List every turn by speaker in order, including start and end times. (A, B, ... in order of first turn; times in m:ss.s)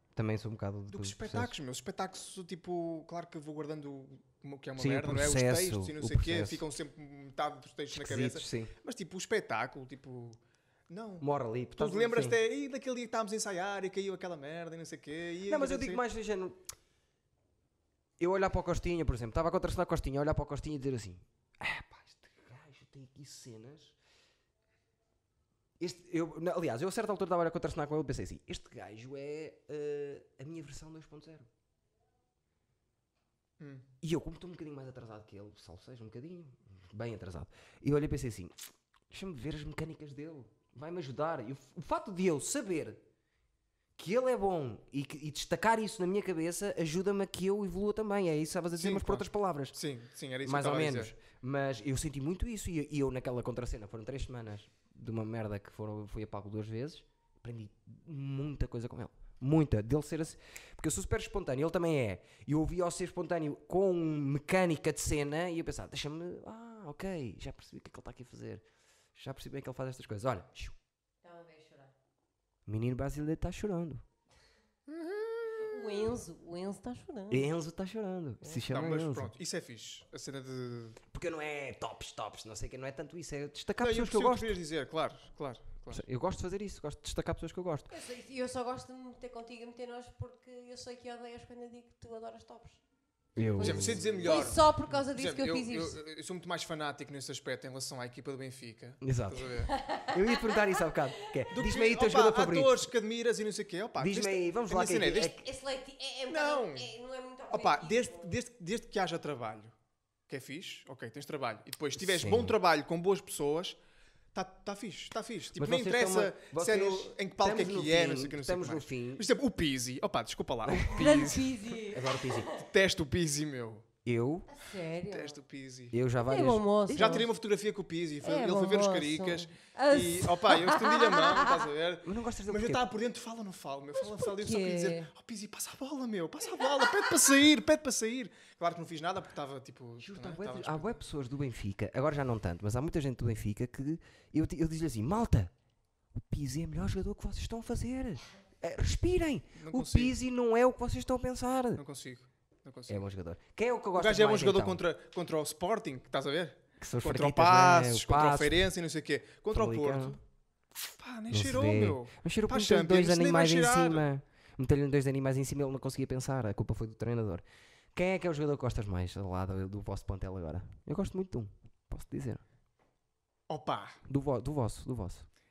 0:00.1-0:01.5 A
0:00.9-0:10.4 B
0:04.8-0:06.6 A
0:07.9-0:08.7 A
0:10.9-0:11.2 B
0:11.2-0:12.4 A
0:11.8-0:16.0 B
0:15.4-0:16.6 A
0:18.2-0:24.0 A
0:25.8-0:31.5 A
0:33.6-0:33.8 B
0:34.0-0:43.0 A
0:44.0-0:49.8 A
0:48.8-0:51.1 B
0:50.4-1:10.8 A
1:11.2-1:11.9 C
1:12.6-1:14.0 A
1:14.9-1:16.1 B
1:15.5-1:17.5 C
1:17.3-1:19.3 A
1:18.6-1:21.0 B
1:21.1-1:24.6 A
1:23.8-1:26.0 B
1:25.9-1:27.9 A
1:27.9-1:32.8 C
1:33.4-1:34.6 A
1:33.6-1:36.0 C
1:33.6-1:39.7 B
1:39.0-1:39.5 A
1:39.7-1:40.9 C
1:40.0-1:42.9 A
1:41.5-1:45.4 B
1:44.0-1:45.4 A
1:45.1-1:48.3 C
1:46.3-1:46.9 B
1:47.5-1:49.7 B
1:50.3-1:53.8 B
1:52.0-1:52.6 A
1:54.3-2:01.7 B
1:55.6-1:59.2 A
2:00.6-2:01.2 A
2:00.9-2:02.6 C
2:01.9-2:02.5 A
2:02.5-2:03.8 B
2:04.0-2:04.5 A
2:04.5-2:05.4 C
2:05.0-2:06.0 B
2:05.9-2:07.3 A
2:06.2-2:07.3 C
2:06.9-2:21.0 B
2:08.2-2:11.6 C
2:12.0-2:12.8 A
2:14.0-2:15.1 C
2:20.0-2:25.5 A
2:26.1-2:31.8 A
2:29.6-2:30.2 B
2:31.8-2:33.0 B
2:32.9-2:34.8 A
2:34.0-2:40.2 B
2:36.8-2:38.6 A
2:39.5-2:40.2 A
2:40.7-2:44.0 B
2:41.3-2:47.4 A
2:47.9-2:52.4 A
2:53.5-2:54.0 B
2:54.1-2:55.3 A